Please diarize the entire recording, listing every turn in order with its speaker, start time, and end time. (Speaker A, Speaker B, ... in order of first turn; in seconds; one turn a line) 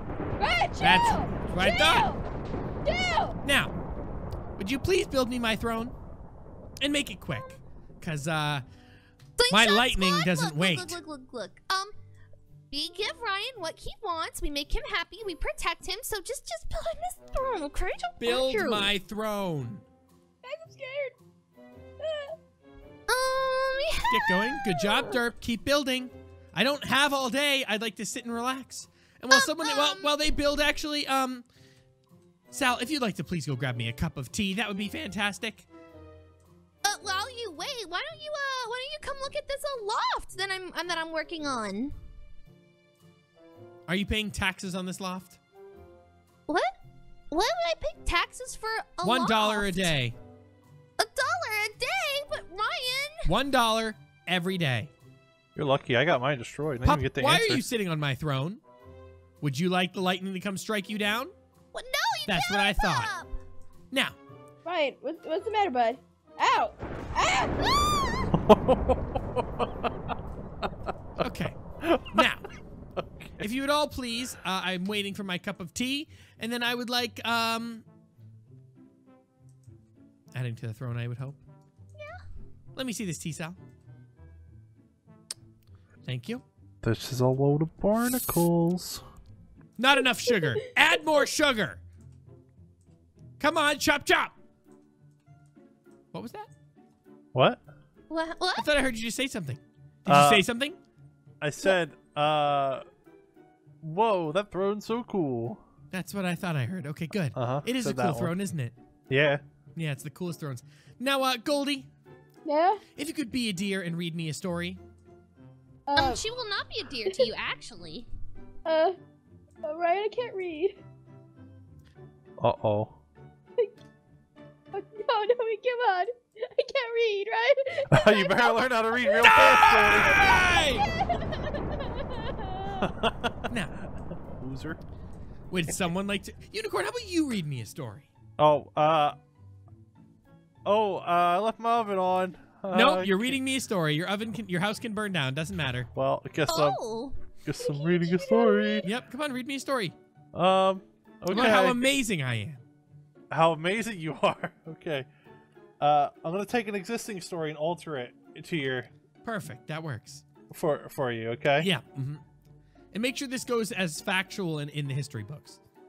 Speaker A: 0.4-2.2
Speaker B: 0.8-2.1
Speaker A: 2.8-3.4
Speaker B: 3.4-3.8
Speaker B: 4.6-5.9
Speaker B: 6.8-8.6
Speaker C: 9.4-11.9
Speaker B: 9.5-11.0
Speaker C: 12.7-18.9
Speaker B: 18.2-19.8
Speaker A: 20.4-21.2
Speaker A: 22.0-22.4
Speaker C: 23.1-25.2
Speaker B: 24.1-31.5
Speaker C: 29.3-30.1
Speaker B: 32.5-35.7
Speaker C: 36.8-41.9
Speaker B: 43.9-45.4
Speaker C: 46.5-46.7
Speaker C: 47.3-49.9
Speaker B: 49.0-50.2
Speaker C: 51.0-53.3
Speaker B: 53.3-54.9
Speaker D: 55.5-57.6
Speaker B: 56.8-58.6
Speaker B: 59.4-61.3
Speaker C: 61.7-63.3
Speaker B: 62.3-63.1
Speaker B: 63.9-64.2
Speaker A: 64.7-67.6
Speaker C: 67.6-68.3
Speaker D: 68.3-69.7
Speaker B: 71.2-71.6
Speaker D: 71.8-72.3
Speaker B: 72.1-72.5
Speaker D: 73.0-73.5
Speaker B: 73.4-77.9
Speaker B: 80.3-81.4
Speaker B: 82.8-83.6
Speaker B: 86.0-86.4
Speaker D: 86.8-89.0
Speaker B: 89.8-91.8
Speaker B: 93.4-94.3
Speaker B: 96.1-96.5
Speaker D: 97.3-97.6
Speaker C: 98.1-98.7
Speaker B: 98.6-100.8
Speaker D: 100.1-100.5
Speaker D: 101.4-102.8
Speaker D: 103.8-105.6
Speaker B: 105.9-108.8
Speaker D: 107.3-108.4
Speaker D: 109.1-109.4
Speaker B: 109.8-111.9
Speaker A: 112.5-112.8
Speaker B: 113.0-114.8
Speaker A: 115.9-116.2
Speaker C: 116.0-118.1
Speaker A: 118.7-119.0
Speaker A: 119.6-120.8
Speaker D: 122.4-123.0
Speaker A: 124.7-132.9
Speaker D: 127.9-130.4
Speaker B: 129.2-130.9
Speaker D: 132.8-133.5
Speaker B: 133.5-133.8
Speaker D: 134.4-134.8
Speaker B: 135.5-138.1
Speaker D: 138.4-139.2
Speaker D: 140.7-143.4
Speaker B: 142.7-145.9
Speaker D: 145.9-146.8
Speaker C: 146.5-147.2
Speaker D: 147.4-148.9
Speaker A: 147.6-148.8
Speaker B: 148.8-150.0
Speaker D: 150.3-151.8
Speaker B: 151.3-152.6
Speaker D: 153.3-155.1
Speaker D: 155.8-158.9
Speaker B: 159.2-160.2
Speaker D: 160.5-161.7
Speaker B: 161.6-162.2
Speaker B: 162.9-165.6